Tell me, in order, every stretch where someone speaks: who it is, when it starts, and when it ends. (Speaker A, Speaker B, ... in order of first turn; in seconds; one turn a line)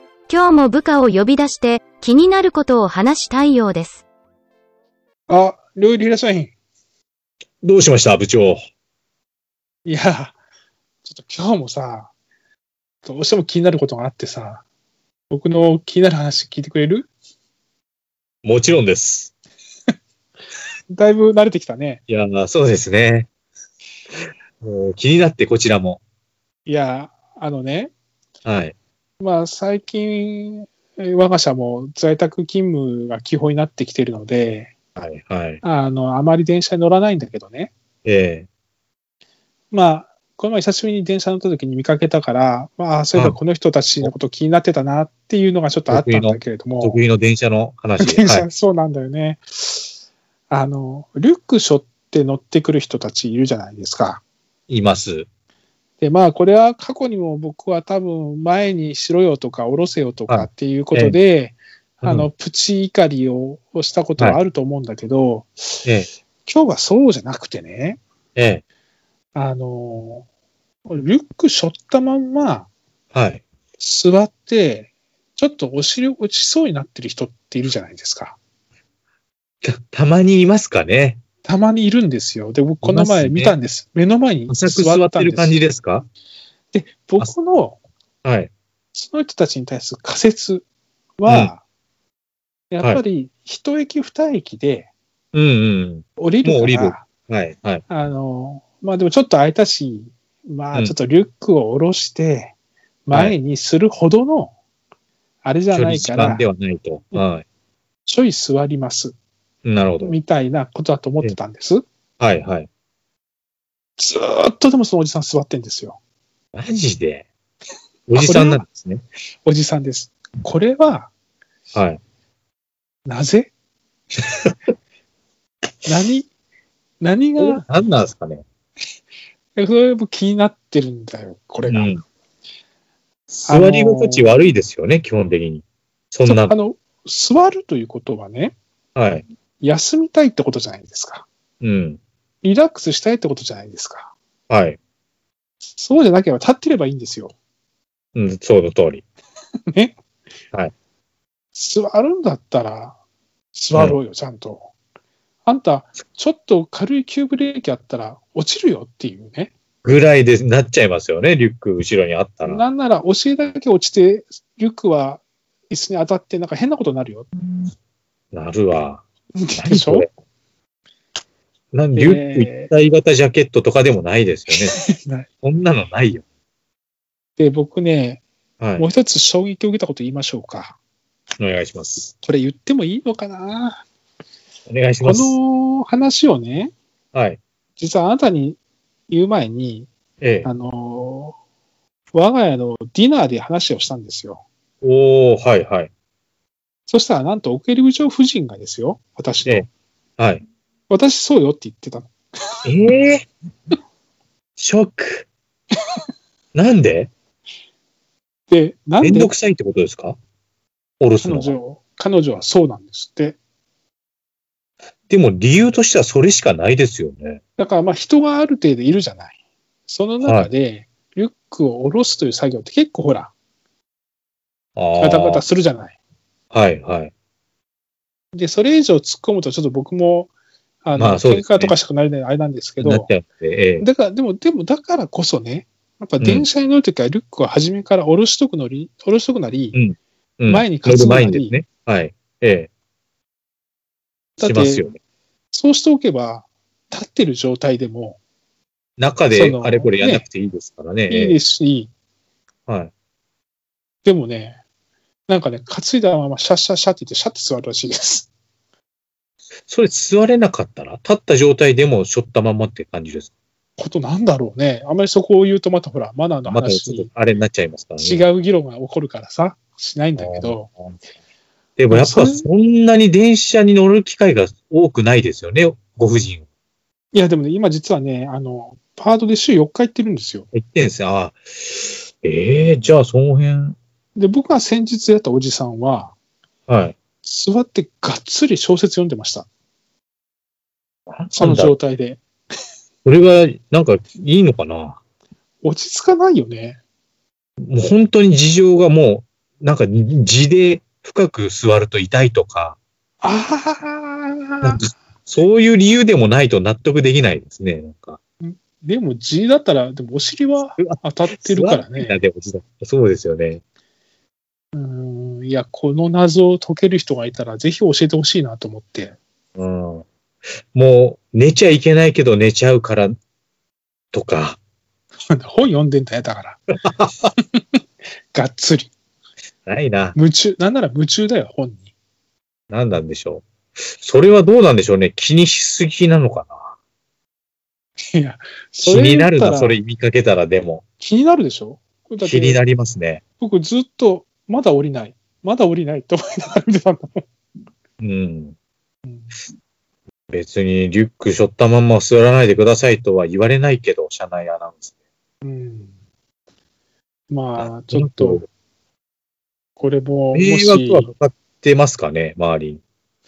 Speaker A: 0.3-4.0
Speaker B: 5.3-6.5
Speaker C: 7.6-8.6
Speaker B: 9.8-10.4
Speaker B: 11.1-12.1
Speaker B: 13.0-14.6
Speaker B: 15.3-17.1
Speaker C: 18.4-19.3
Speaker B: 20.9-22.0
Speaker C: 22.1-23.3
Speaker C: 24.6-26.0
Speaker B: 26.7-27.9
Speaker C: 28.4-28.8
Speaker B: 29.2-34.7
Speaker C: 35.0-35.6
Speaker B: 35.6-37.7
Speaker C: 38.0-38.5
Speaker B: 39.7-47.0
Speaker C: 45.9-48.5
Speaker B: 48.0-49.9
Speaker B: 50.5-54.2
Speaker C: 54.7-55.3
Speaker B: 56.0-65.8
Speaker C: 60.3-61.2
Speaker C: 62.0-62.3
Speaker B: 66.5-68.0
Speaker C: 68.4-68.6
Speaker B: 69.3-70.3
Speaker B: 70.9-72.7
Speaker C: 73.1-73.4
Speaker B: 73.8-78.4
Speaker C: 79.6-81.2
Speaker B: 81.4-85.5
Speaker C: 82.8-83.5
Speaker C: 84.5-86.1
Speaker B: 86.7-87.8
Speaker C: 88.2-88.5
Speaker B: 88.9-90.7
Speaker B: 91.2-91.6
Speaker C: 91.3-91.5
Speaker B: 92.7-94.9
Speaker C: 95.3-97.8
Speaker B: 96.2-97.0
Speaker B: 97.9-102.5
Speaker B: 103.1-104.5
Speaker C: 103.1-103.4
Speaker B: 105.4-106.5
Speaker C: 105.7-107.5
Speaker B: 108.1-109.2
Speaker C: 109.7-110.2
Speaker B: 110.0-111.8
Speaker C: 112.2-112.7
Speaker B: 114.0-116.0
Speaker C: 116.5-117.3
Speaker C: 118.1-119.0
Speaker B: 118.1-118.6
Speaker B: 119.5-121.1
Speaker C: 121.7-122.0
Speaker B: 123.1-123.5
Speaker B: 125.9-126.3
Speaker B: 127.0-127.7
Speaker C: 127.4-128.4
Speaker B: 129.6-131.9
Speaker C: 131.7-132.0
Speaker C: 133.3-136.6
Speaker B: 133.5-134.3
Speaker B: 136.2-138.6
Speaker C: 139.0-139.2
Speaker B: 139.6-141.3
Speaker C: 141.6-142.0
Speaker B: 142.4-144.1
Speaker C: 144.5-144.8
Speaker B: 145.8-147.3
Speaker C: 148.2-149.1
Speaker B: 151.5-153.0
Speaker B: 153.5-154.7
Speaker C: 153.7-154.0
Speaker B: 155.4-159.5
Speaker C: 159.8-162.6
Speaker B: 162.4-167.3
Speaker C: 168.3-169.0
Speaker B: 169.4-170.1
Speaker C: 169.6-170.1
Speaker C: 171.7-174.8
Speaker B: 171.9-172.7
Speaker B: 174.5-175.3
Speaker C: 175.4-176.2
Speaker B: 177.4-178.2
Speaker C: 178.6-178.9
Speaker B: 178.8-180.8
Speaker C: 181.4-182.1
Speaker B: 182.2-183.8
Speaker C: 184.7-185.4
Speaker B: 185.0-186.7
Speaker C: 187.1-187.4
Speaker B: 187.8-188.6
Speaker B: 189.1-189.9
Speaker C: 190.2-190.5
Speaker B: 190.4-191.4
Speaker B: 192.1-194.4
Speaker C: 194.8-195.9
Speaker B: 196.9-199.7
Speaker C: 199.5-200.4
Speaker B: 200.9-202.1
Speaker C: 202.7-203.3
Speaker C: 204.6-205.3
Speaker C: 206.5-207.1
Speaker B: 208.5-209.3
Speaker C: 209.0-210.2
Speaker C: 211.0-211.6
Speaker B: 211.2-213.4
Speaker C: 215.1-217.4
Speaker B: 217.6-219.3
Speaker B: 219.9-223.3
Speaker C: 220.2-220.5
Speaker C: 224.8-225.4
Speaker B: 225.0-225.9
Speaker C: 226.5-227.1
Speaker B: 228.3-230.3
Speaker B: 230.8-233.1
Speaker C: 230.9-231.8
Speaker C: 232.8-233.9
Speaker B: 233.8-239.8
Speaker C: 236.2-236.5
Speaker C: 239.7-242.7
Speaker B: 240.5-241.6
Speaker B: 244.4-244.9
Speaker C: 244.4-245.0
Speaker B: 245.5-248.2
Speaker C: 249.0-251.4
Speaker B: 249.3-250.2
Speaker B: 251.1-251.9
Speaker B: 254.0-254.6
Speaker B: 255.3-258.3
Speaker C: 259.7-263.3
Speaker B: 263.8-267.1
Speaker C: 266.5-268.3
Speaker B: 268.0-270.7
Speaker C: 270.2-271.0
Speaker C: 271.8-276.4
Speaker B: 271.9-272.5
Speaker B: 277.1-280.5
Speaker C: 280.5-283.8
Speaker B: 284.1-286.1
Speaker C: 286.7-286.9
Speaker B: 287.2-289.5
Speaker C: 291.1-291.8
Speaker B: 291.4-292.2
Speaker C: 293.0-295.0
Speaker B: 295.6-296.8
Speaker C: 297.6-302.8
Speaker B: 303.2-304.8
Speaker C: 304.6-308.2
Speaker B: 308.4-312.2
Speaker C: 310.8-313.6
Speaker B: 314.7-319.2
Speaker C: 319.6-320.1
Speaker C: 320.7-323.1
Speaker C: 324.1-324.6
Speaker B: 325.4-326.6
Speaker C: 326.9-327.3
Speaker B: 328.3-328.9
Speaker C: 329.7-330.2
Speaker B: 330.1-331.9
Speaker C: 332.7-336.8
Speaker B: 338.1-339.8
Speaker C: 338.8-340.8
Speaker B: 341.0-342.6
Speaker C: 342.2-343.2
Speaker B: 343.4-347.3
Speaker C: 348.0-348.6
Speaker B: 349.1-349.3
Speaker C: 350.3-354.9
Speaker B: 355.4-355.9
Speaker B: 357.3-358.4
Speaker C: 357.6-358.5
Speaker B: 359.8-361.1
Speaker C: 360.3-362.8